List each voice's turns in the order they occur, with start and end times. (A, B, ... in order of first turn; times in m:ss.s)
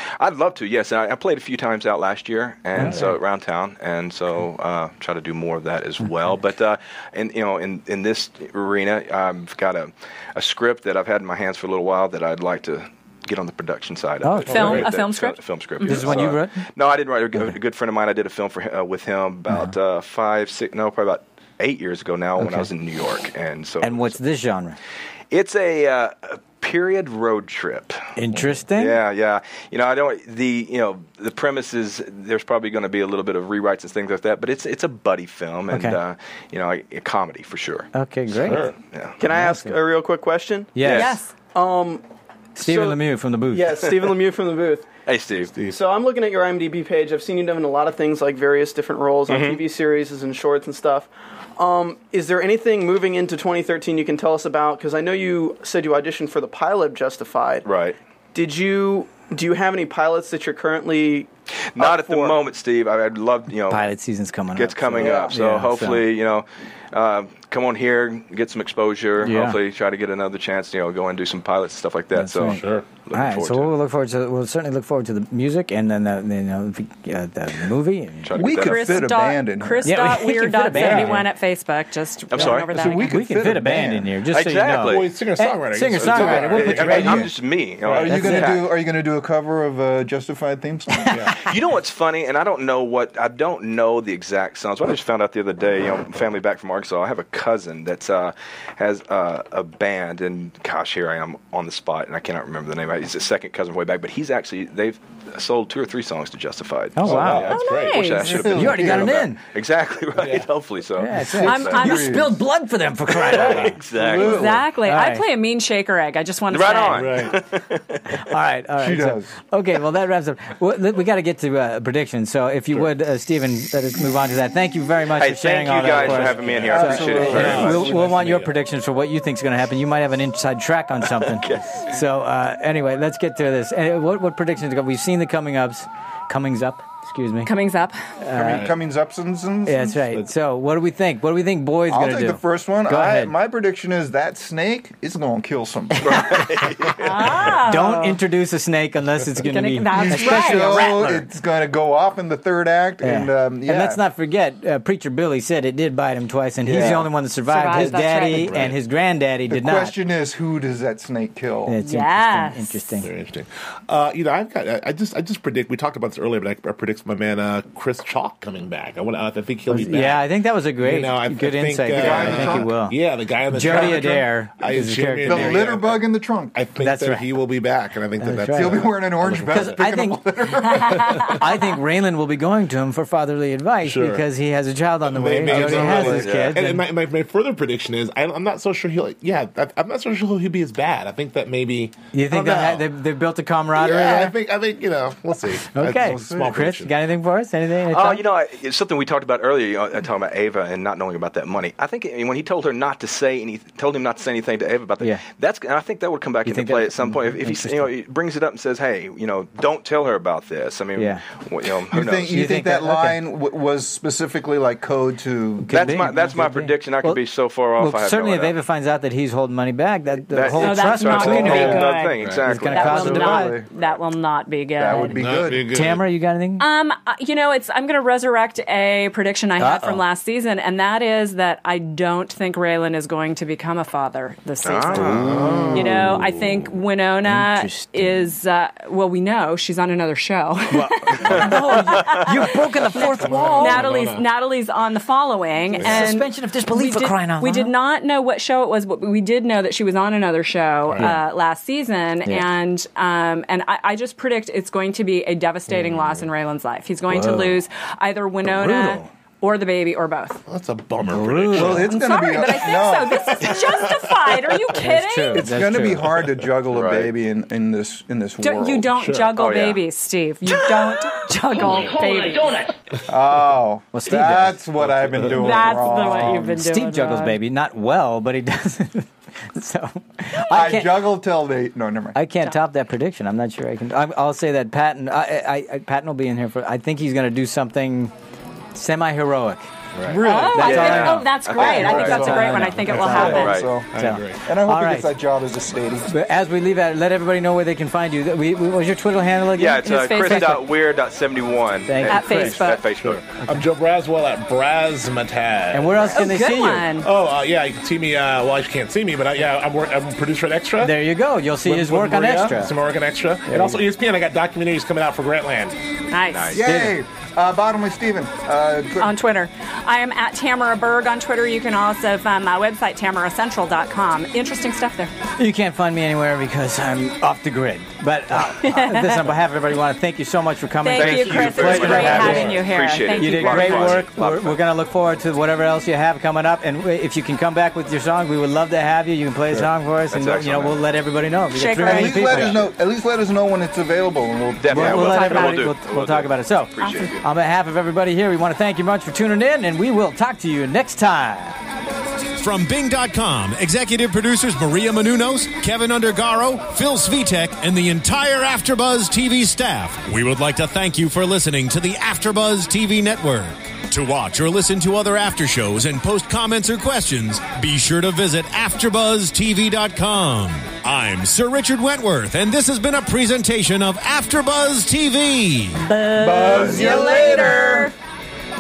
0:00.2-0:24.1 A
0:02.8-0:03.1 B
0:02.8-0:03.1 C
0:14.2-0:14.8 B
0:14.4-0:16.2 D
0:14.5-0:14.9 C
0:15.8-0:16.6 B
0:22.4-0:22.7 B
0:23.8-0:24.8 B
0:25.3-0:28.0 A
0:28.2-0:29.0 B
0:28.7-0:37.9 A
0:35.7-0:36.0 B
0:37.9-0:39.8 B
0:38.3-0:38.8 C
0:39.2-0:41.0 E
0:40.7-0:41.1 B
0:40.8-0:41.1 A
0:40.9-0:41.3 D
0:41.5-0:42.0 E
0:42.6-0:43.8 B
0:42.6-0:44.9 E
0:43.8-0:44.1 A
0:45.0-0:45.5 A
0:45.6-0:57.6 E
0:49.3-0:49.6 A
0:57.6-0:58.0 A
0:58.3-1:02.4 E
1:01.7-1:03.8 A
1:03.7-1:06.0 B
1:04.5-1:13.7 A
1:05.0-1:05.3 E
1:09.2-1:09.6 B
1:12.1-1:18.3 B
1:12.5-1:12.8 C
1:18.2-1:19.1 A
1:18.3-1:19.9 F
1:18.5-1:23.2 D
1:19.8-1:21.3 B
1:20.7-1:21.2 C
1:22.3-1:23.0 A
1:22.7-1:24.1 F
1:23.1-1:27.3 B
1:24.3-1:25.1 A
1:24.7-1:27.3 C
1:26.0-1:28.7 A
1:27.8-1:31.3 F
1:27.9-1:28.5 B
1:31.1-1:31.4 C
1:31.4-1:51.8 A
1:46.9-1:47.5 B
1:47.0-1:48.1 C
1:47.5-1:48.4 D
1:48.2-1:49.2 F
1:48.2-1:49.4 B
1:50.2-1:50.4 C
1:51.0-1:55.2 B
1:51.2-1:52.4 F
1:51.4-1:52.2 D
1:53.1-1:54.6 A
1:53.4-1:54.2 C
1:54.0-1:54.6 F
1:54.1-1:57.2 D
1:56.5-1:58.2 A
1:56.9-1:57.3 C
1:58.1-2:17.5 B
1:58.8-1:59.3 F
2:05.1-2:07.9 A
2:05.9-2:08.5 C
2:06.6-2:08.2 F
2:11.3-2:11.9 A
2:17.4-2:18.0 D
2:18.2-2:18.7 B
2:18.3-2:20.2 F
2:18.4-2:18.7 C
2:19.6-2:23.3 B
2:21.9-2:26.4 F
2:26.0-2:26.5 B
2:26.0-2:27.5 A
2:27.0-2:28.2 D
2:27.5-2:31.2 B
2:29.5-2:30.9 D
2:29.9-2:34.0 F
2:33.0-2:39.9 B
2:36.6-2:37.1 F
2:37.4-2:38.6 D
2:37.7-2:38.8 C
2:39.5-2:41.8 F
2:41.7-2:43.1 B
2:41.8-2:42.7 D
2:43.0-2:59.7 C
2:49.7-2:53.0 B
2:51.9-2:52.7 F
2:53.5-2:55.6 B
2:53.7-2:54.0 F
2:55.2-2:56.6 F
2:56.8-2:57.3 B
2:58.2-3:06.9 B
2:58.5-3:01.4 F
3:00.8-3:01.3 D
3:03.8-3:04.2 C
3:05.0-3:12.8 C
3:05.5-3:06.2 F
3:06.0-3:06.6 A
3:12.1-3:14.3 B
3:13.7-3:16.9 C
3:15.7-3:18.2 B
3:15.9-3:16.6 F
3:17.9-3:32.3 A
3:26.4-3:27.9 B
3:31.0-3:31.2 B
3:31.9-3:36.1 F
3:32.2-3:33.2 B
3:35.6-3:37.2 B
3:35.7-3:38.5 A
3:37.8-3:43.6 B
3:40.3-3:44.0 A
3:40.6-3:45.2 D
3:41.4-3:42.4 C
3:42.8-3:43.6 F
3:44.8-3:45.7 F
3:45.0-3:46.6 B
3:45.2-3:46.1 C
3:46.6-4:20.4 D
3:49.6-3:50.0 B
3:54.6-3:55.7 A
3:55.0-3:56.6 C
3:55.3-3:56.0 B
3:57.3-3:58.0 B
4:00.7-4:03.8 B
4:00.8-4:01.5 C
4:03.2-4:04.3 C
4:05.7-4:07.7 B
4:05.8-4:06.1 C
4:10.8-4:11.2 C
4:15.7-4:16.2 C
4:17.1-4:17.6 B
4:18.4-4:19.1 B
4:20.5-4:22.0 C
4:21.0-4:21.9 B
4:21.5-4:23.6 F
4:21.9-4:25.5 D
4:23.3-4:24.5 C
4:24.7-4:26.1 B
4:25.3-4:28.9 F
4:26.7-4:27.1 A
4:28.4-4:32.7 D
4:29.0-4:29.3 C
4:29.4-4:29.8 A
4:33.0-4:36.6 F
4:33.9-4:35.5 B
4:34.8-4:35.7 C
4:35.3-4:37.4 D
4:36.4-4:41.1 B
4:40.5-4:42.2 F
4:42.1-4:48.1 B
4:48.7-4:49.7 B
4:50.0-4:51.3 C
4:50.1-4:50.8 F
4:50.2-4:53.7 D
4:50.5-4:55.1 B
4:50.7-4:52.4 A
4:51.7-4:52.2 F
4:52.4-4:54.4 C
4:52.9-4:56.1 F
4:53.2-4:53.7 A
4:56.1-5:00.6 B
4:59.6-5:03.3 A
4:59.8-5:00.6 D
5:01.9-5:02.7 B
5:02.1-5:02.8 D
5:03.0-5:06.2 C
5:05.7-5:06.9 B
5:06.1-5:07.1 D
5:07.0-5:11.0 C
5:10.8-5:12.7 B
5:11.6-5:15.8 C
5:13.4-5:13.8 B
5:16.1-5:16.6 D
5:16.3-5:16.6 A
5:16.5-5:19.2 F
5:16.6-5:17.0 B
5:19.0-5:25.1 D
5:25.4-5:32.5 B
5:28.6-5:29.3 D
5:30.8-5:34.0 D
5:30.9-5:34.6 A
5:31.8-5:32.6 C
5:33.1-5:42.7 B
5:40.1-5:40.8 A
5:41.5-5:42.6 D
5:41.8-5:45.0 F
5:44.6-5:47.2 A
5:44.7-5:51.6 B
5:44.9-5:45.7 D
5:46.8-5:47.2 D
5:52.4-6:15.8 G
6:15.8-6:17.9 D
6:16.0-6:17.9 F